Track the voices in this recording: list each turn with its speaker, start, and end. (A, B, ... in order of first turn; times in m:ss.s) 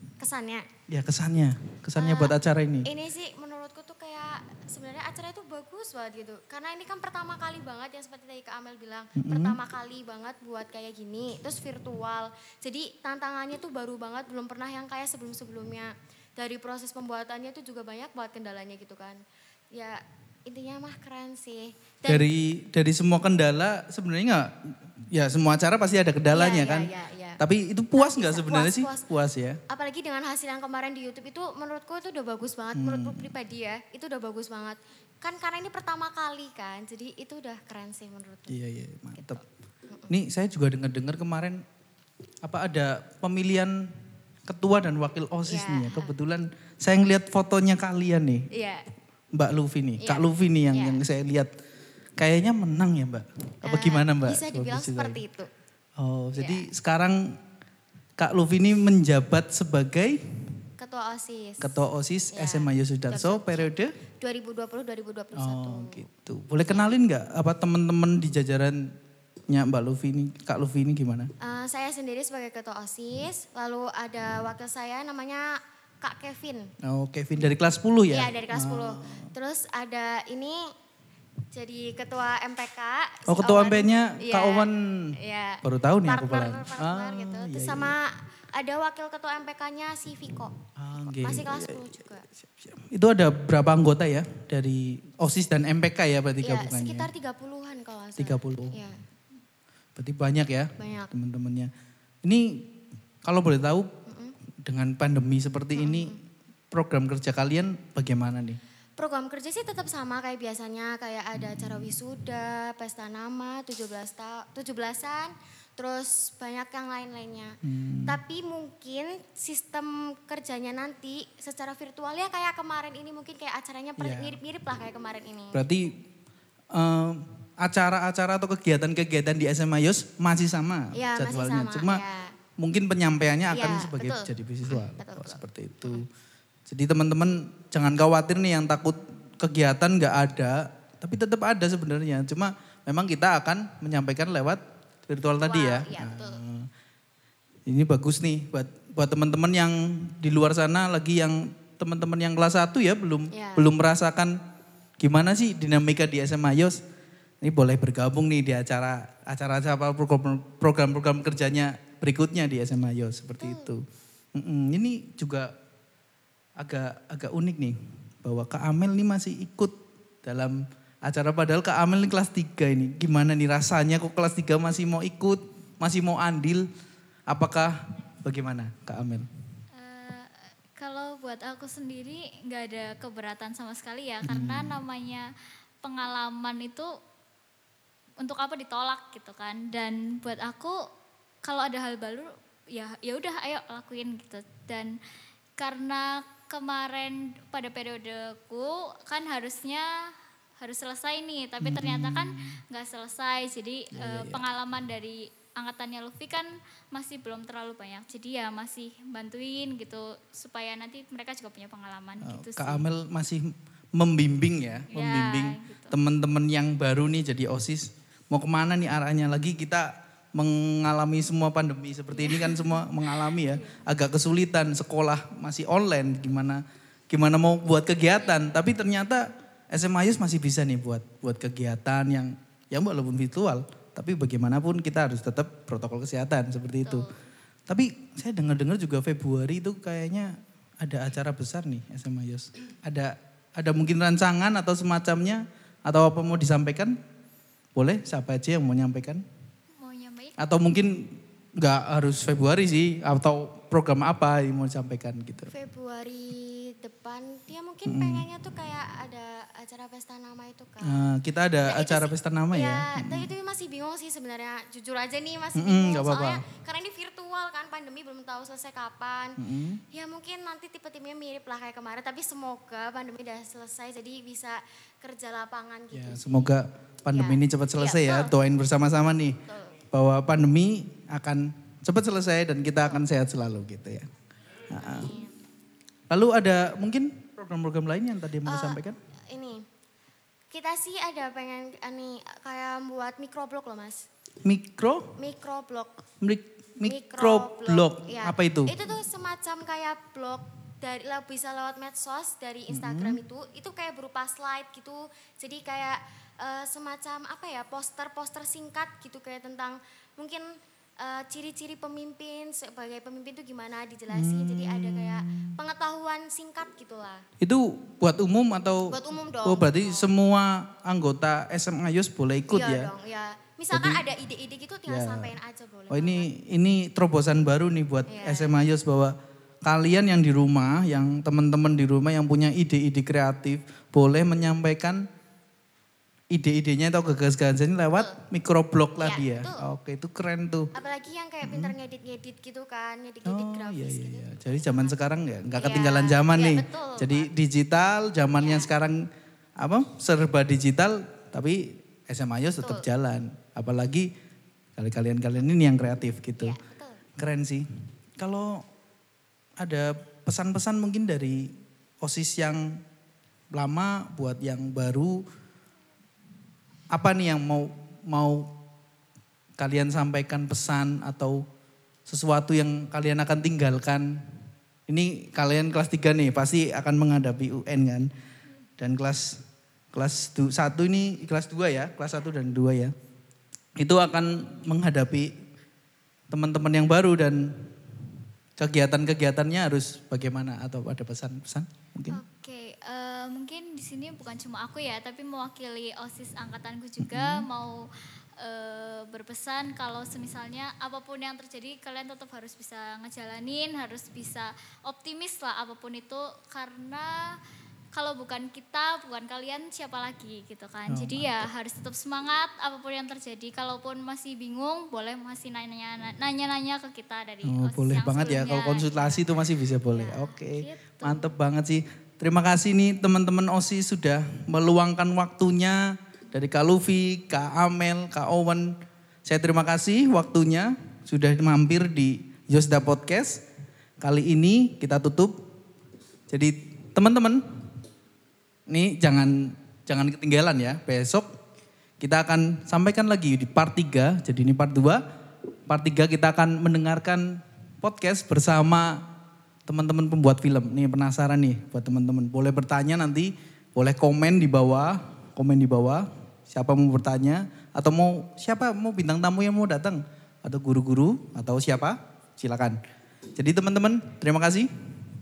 0:00.2-0:00.7 A
0:00.9-0:02.9 B
0:02.0-0:19.2 A
0:09.2-0:09.6 B
0:19.7-0:22.3 A
0:22.1-0:29.6 B
0:26.3-0:27.4 A
0:28.0-0:29.1 A
0:29.7-0:38.6 A
0:32.8-0:33.3 B
0:38.5-0:39.4 B
0:39.2-0:40.1 A
0:40.1-0:41.6 B
0:42.4-0:43.9 B
0:44.5-0:48.5 B
0:45.5-0:46.1 A
0:48.5-0:48.8 A
0:49.3-0:51.5 B
0:50.0-0:51.0 A
0:52.2-0:55.2 B
0:53.6-0:55.5 A
0:56.0-0:57.4 B
0:56.4-0:56.7 A
0:58.2-1:00.2 B
1:00.8-1:01.8 A
1:01.6-1:03.9 B
1:02.3-1:06.1 A
1:05.4-1:08.9 B
1:06.7-1:06.9 A
1:09.5-1:11.3 B
1:11.4-1:15.5 A
1:16.0-1:16.7 A
1:16.8-1:19.3 B
1:18.1-1:20.7 A
1:21.5-1:32.3 A
1:23.3-1:25.1 B
1:25.6-1:27.9 B
1:30.8-1:31.8 B
1:32.4-1:37.1 B
1:36.4-1:39.0 A
1:38.2-1:38.8 B
1:40.0-1:41.7 B
1:40.8-1:41.1 A
1:42.2-1:42.7 B
1:43.2-1:43.9 B
1:44.1-1:44.4 A
1:44.6-1:46.2 B
1:45.8-1:46.2 A
1:46.7-1:48.6 B
1:49.0-1:57.6 A
1:51.5-1:51.8 B
1:57.6-1:58.2 B
1:58.1-2:05.6 A
2:04.0-2:04.4 B
2:05.5-2:06.0 B
2:06.7-2:12.0 B
2:10.9-2:12.4 A
2:12.6-2:16.0 B
2:13.5-2:16.0 A
2:16.7-2:26.7 B
2:25.4-2:26.4 A
2:27.7-2:34.4 B
2:33.3-2:33.7 A
2:35.0-2:36.8 B
2:37.4-2:43.8 B
2:43.4-2:43.7 A
2:44.4-2:45.5 B
2:46.6-2:56.7 B
2:57.3-2:59.3 B
2:59.8-3:05.3 C
3:04.2-3:04.8 B
3:05.8-3:06.9 C
3:08.2-3:10.7 C
3:11.4-3:14.9 C
3:15.6-3:19.9 C
3:20.6-3:32.8 C
3:21.6-3:22.6 B
3:24.0-3:24.4 B
3:32.2-3:57.1 B
3:34.9-3:36.0 C
3:42.1-3:43.8 C
3:57.7-4:07.0 B
4:07.8-4:09.2 B
4:09.8-4:10.4 C
4:10.4-4:15.5 B
4:15.5-4:21.1 A
4:17.9-4:18.3 B
4:20.8-4:23.3 B
4:21.6-4:29.4 A
4:25.6-4:26.4 B
4:29.4-4:29.8 B
4:29.9-4:36.6 A
4:35.9-4:39.4 B
4:37.1-4:38.3 A
4:39.5-4:39.8 A
4:39.9-4:44.1 B
4:44.7-4:45.1 B
4:44.8-4:45.3 A
4:46.1-4:49.0 B
4:48.5-4:49.6 A
4:50.5-4:54.1 A
4:54.4-4:55.1 B
4:55.2-4:56.0 A
4:56.2-4:58.8 B
4:56.8-5:10.5 A
5:02.7-5:03.2 B
5:11.0-5:17.2 A
5:14.1-5:15.5 B
5:17.4-5:22.9 B
5:18.9-5:20.1 A
5:22.5-5:26.3 A
5:23.7-5:24.0 B
5:24.9-5:25.4 B
5:25.9-5:35.0 B
5:28.1-5:28.6 A
5:36.3-5:40.7 B
5:37.9-5:38.2 A
5:39.0-5:39.6 A
5:40.8-5:45.0 A
5:41.4-5:41.8 B
5:43.2-5:49.1 B
5:45.5-5:47.3 A
5:48.4-5:48.7 A
5:49.6-5:54.1 B
5:52.6-5:52.9 A
5:54.8-5:56.6 B
5:56.4-5:57.0 A
5:57.2-5:57.7 B
5:58.2-5:58.6 B
5:59.6-6:02.8 B
6:03.5-6:05.2 B
6:06.9-6:08.5 B
6:09.6-6:11.4 B
6:12.1-6:14.3 B
6:14.9-6:18.1 B
6:18.8-6:19.4 B
6:19.9-6:22.9 B
6:23.8-6:25.3 B
6:26.3-6:27.7 B
6:28.6-6:32.2 B
6:32.1-6:37.8 C
6:37.0-6:37.4 B
6:38.4-6:47.1 C
6:47.9-7:01.4 C
6:50.9-6:51.5 B
6:57.4-7:08.7 B
7:09.3-7:13.4 B
7:14.0-7:15.4 B
7:16.3-7:17.4 B
7:18.7-7:21.3 B
7:22.0-7:25.0 B
7:25.7-7:29.0 B
7:29.7-7:42.8 B
7:43.4-7:44.7 B